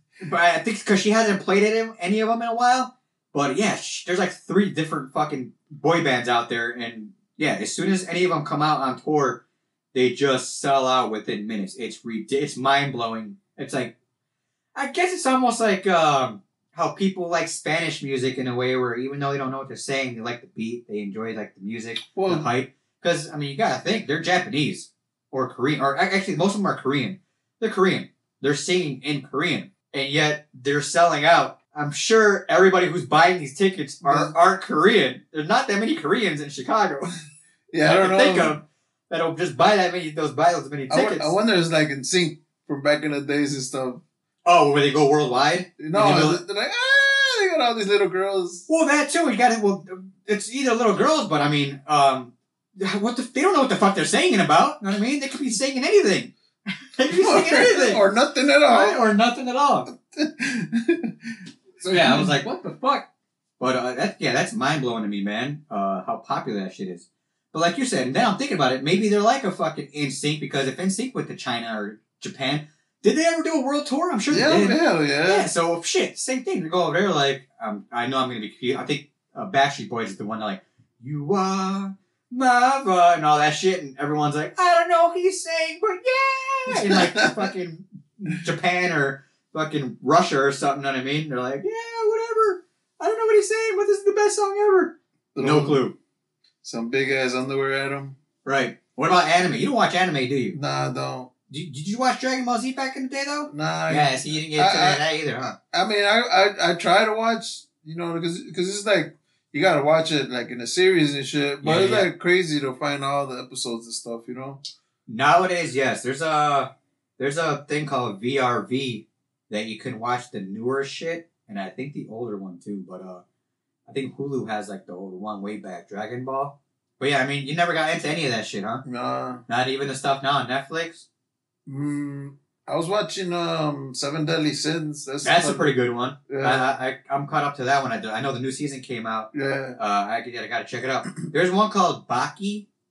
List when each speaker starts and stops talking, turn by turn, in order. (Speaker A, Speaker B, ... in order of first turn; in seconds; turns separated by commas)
Speaker A: 0.2-9.4, Speaker A: 9.9-13.9, Speaker A: 14.7-37.1, Speaker B: 22.1-22.5, Speaker B: 34.0-34.3, Speaker B: 37.7-38.6, Speaker A: 37.9-41.3, Speaker B: 40.9-44.0, Speaker A: 44.5-46.4, Speaker B: 45.8-48.7, Speaker A: 48.7-56.3, Speaker A: 57.0-58.0, Speaker B: 57.1-59.1, Speaker A: 58.7-59.9, Speaker B: 59.9-61.4, Speaker A: 61.8-63.1, Speaker B: 61.9-62.3, Speaker A: 63.6-96.0, Speaker B: 74.3-75.5, Speaker B: 86.7-87.3, Speaker B: 95.3-95.8, Speaker B: 96.6-98.2, Speaker A: 98.4-100.6, Speaker B: 100.5-101.3, Speaker A: 101.5-105.6, Speaker B: 103.5-105.0, Speaker B: 105.6-114.6, Speaker A: 111.6-112.1, Speaker A: 115.1-123.2, Speaker A: 123.9-128.8, Speaker B: 128.8-129.4, Speaker A: 129.5-131.1, Speaker B: 131.7-135.7, Speaker A: 135.2-142.7, Speaker B: 136.3-136.7, Speaker B: 139.3-139.8